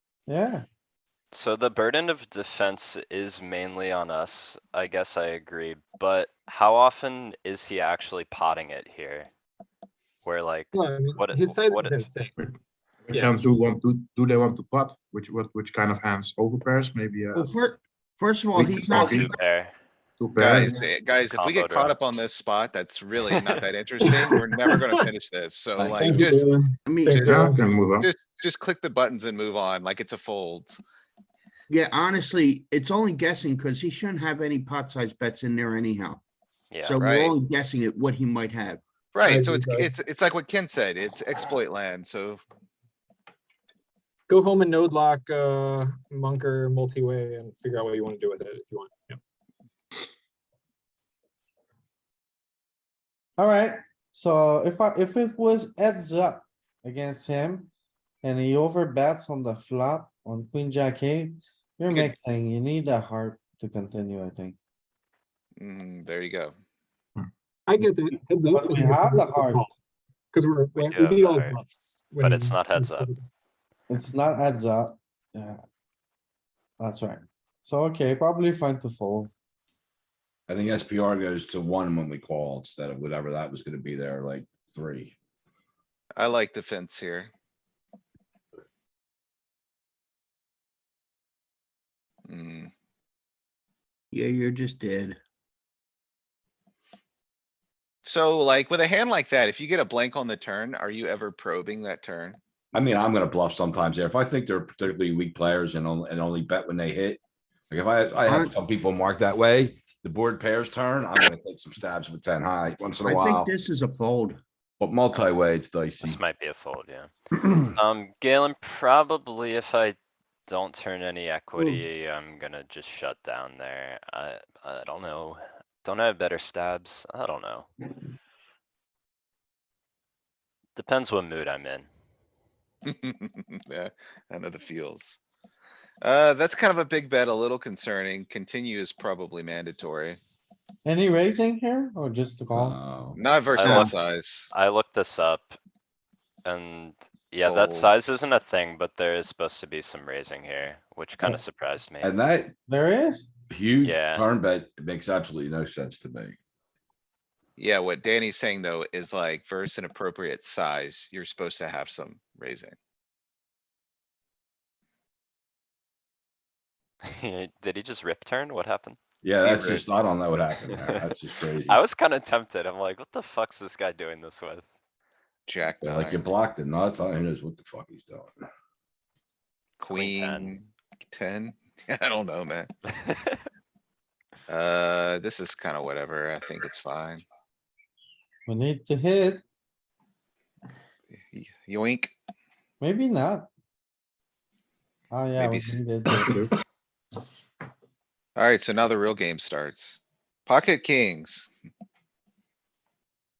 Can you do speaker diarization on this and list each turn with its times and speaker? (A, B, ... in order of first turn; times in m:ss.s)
0:00.3-0:00.6 A
0:01.3-0:09.3 B
0:10.2-0:12.1 B
0:10.7-0:12.4 C
0:13.1-0:17.5 D
0:13.1-0:13.3 C
0:17.3-0:19.3 E
0:18.5-0:19.3 D
0:18.9-0:19.7 B
0:20.2-0:20.8 D
0:20.4-0:26.5 F
0:21.3-0:22.0 B
0:23.2-0:23.6 B
0:24.0-0:25.0 C
0:25.8-0:26.3 G
0:26.0-0:27.6 C
0:26.8-0:27.6 E
0:27.2-0:28.1 D
0:27.8-0:30.8 F
0:31.7-0:36.2 E
0:36.8-0:38.8 E
0:37.0-0:37.3 F
0:39.1-0:42.4 F
0:39.2-0:39.9 C
0:44.3-0:49.2 C
0:53.4-0:57.7 A
0:58.2-1:04.6 A
1:05.6-1:06.5 F
1:07.7-1:09.7 C
1:08.5-1:09.7 A
1:10.3-1:13.2 C
1:10.8-1:11.6 B
1:12.2-1:13.1 B
1:13.9-1:15.6 A
1:16.8-1:19.3 A
1:20.5-1:25.1 G
1:26.2-1:27.3 F
1:32.3-1:32.7 F
1:34.1-1:35.2 E
1:38.0-1:42.4 F
1:42.7-1:53.5 G
1:48.2-1:48.5 E
1:53.0-1:54.4 E
1:54.8-1:56.2 G
1:56.0-2:07.7 B
2:10.8-2:11.9 B
2:12.8-2:15.2 F
2:16.0-2:20.2 F
2:20.8-2:22.8 A
2:22.6-2:23.2 G
2:23.1-2:24.5 F
2:23.5-2:24.0 B
2:24.5-2:25.6 B
2:26.4-2:32.1 B
2:27.4-2:27.9 F
2:32.0-2:32.5 G
2:32.7-2:33.3 A
2:33.5-2:36.4 G
2:33.8-2:34.2 B
2:37.6-2:42.8 F
2:47.1-2:49.0 B
2:49.2-2:51.8 G
2:49.4-2:49.8 F
2:50.7-2:51.1 B
2:51.7-2:54.6 B
2:55.5-2:56.3 F
2:55.8-2:58.5 G
2:59.8-3:02.7 F
2:59.9-3:00.6 B
3:03.0-3:03.4 B
3:04.5-3:07.2 F
3:08.5-3:09.4 A
3:11.2-3:12.1 F
3:12.8-3:13.5 A
3:15.1-3:16.5 A
3:15.4-3:15.8 F
3:16.1-3:16.5 D
3:18.4-3:21.5 F